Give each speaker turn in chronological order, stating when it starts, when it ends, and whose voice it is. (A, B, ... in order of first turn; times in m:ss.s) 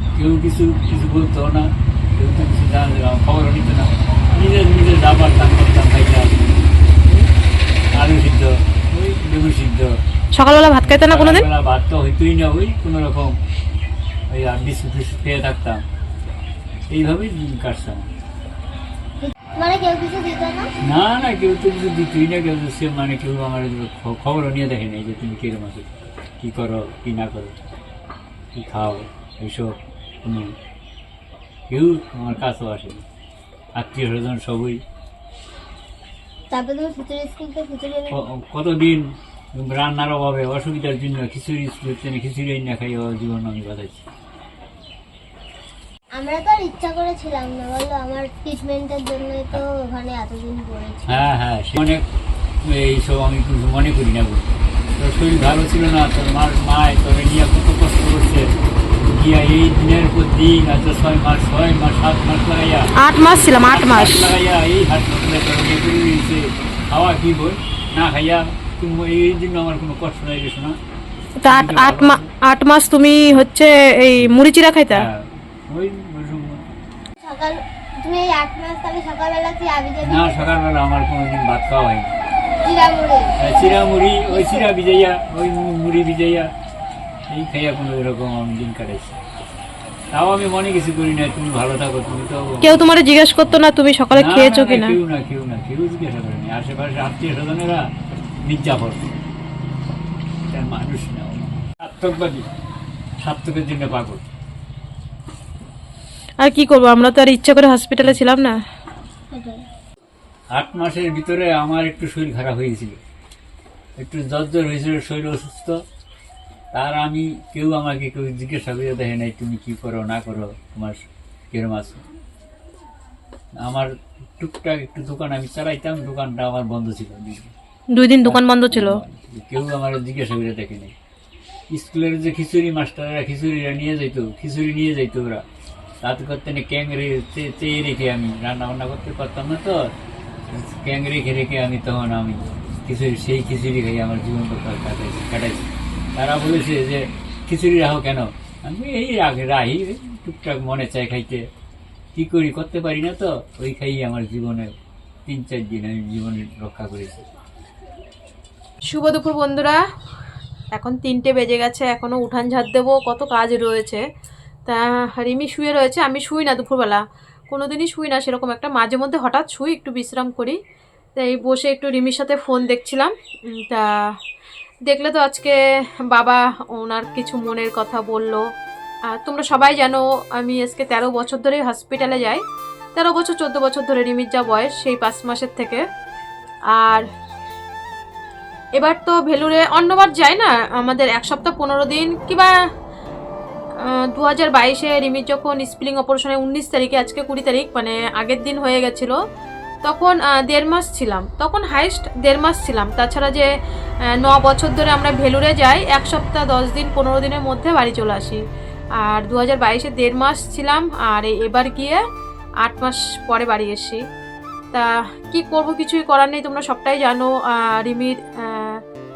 0:00.2-0:07.3 A
0:07.9-0:10.0 A
0:10.3-0:11.4 B
0:10.8-0:13.3 A
0:14.3-0:15.8 A
0:16.9-0:18.1 A
0:19.2-0:20.7 C
0:20.8-0:27.5 A
0:28.5-0:30.5 A
0:31.7-0:33.0 A
0:33.8-0:34.8 A
0:36.5-0:38.2 C
0:38.1-0:44.0 A
0:46.2-0:51.2 C
0:51.1-0:52.0 A
0:52.6-0:58.5 A
0:59.0-1:02.9 A
1:03.0-1:04.2 B
1:03.7-1:10.8 A
1:11.4-1:15.0 B
1:11.4-1:12.3 A
1:14.9-1:16.6 A
1:17.2-1:20.4 C
1:20.0-1:22.1 A
1:22.6-1:24.7 C
1:23.4-1:26.5 A
1:27.3-1:29.2 A
1:30.1-1:32.7 A
1:32.6-1:35.0 B
1:34.1-1:37.8 A
1:38.4-1:39.1 A
1:40.5-1:42.5 A
1:43.2-1:44.3 A
1:46.4-1:48.6 B
1:49.3-1:49.6 C
1:50.5-1:53.0 A
1:54.0-1:55.8 A
1:56.7-2:01.0 A
2:01.5-2:02.0 A
2:03.6-2:07.5 A
2:07.9-2:09.0 B
2:08.2-2:10.9 A
2:11.7-2:15.4 A
2:16.0-2:19.9 A
2:20.5-2:31.4 A
2:32.1-2:34.7 A
2:35.2-2:37.2 A
2:38.9-2:39.8 B
2:40.7-2:44.0 B
2:44.7-2:50.6 B
2:51.2-2:54.1 B
2:54.9-2:58.4 B
2:59.1-3:02.4 B
3:03.0-3:05.8 B
3:06.7-3:07.0 B
3:08.8-3:12.5 B
3:13.8-3:19.2 B
3:19.8-3:23.5 B
3:24.1-3:28.4 B
3:29.0-3:32.0 B
3:32.6-3:34.0 B
3:34.7-3:38.8 B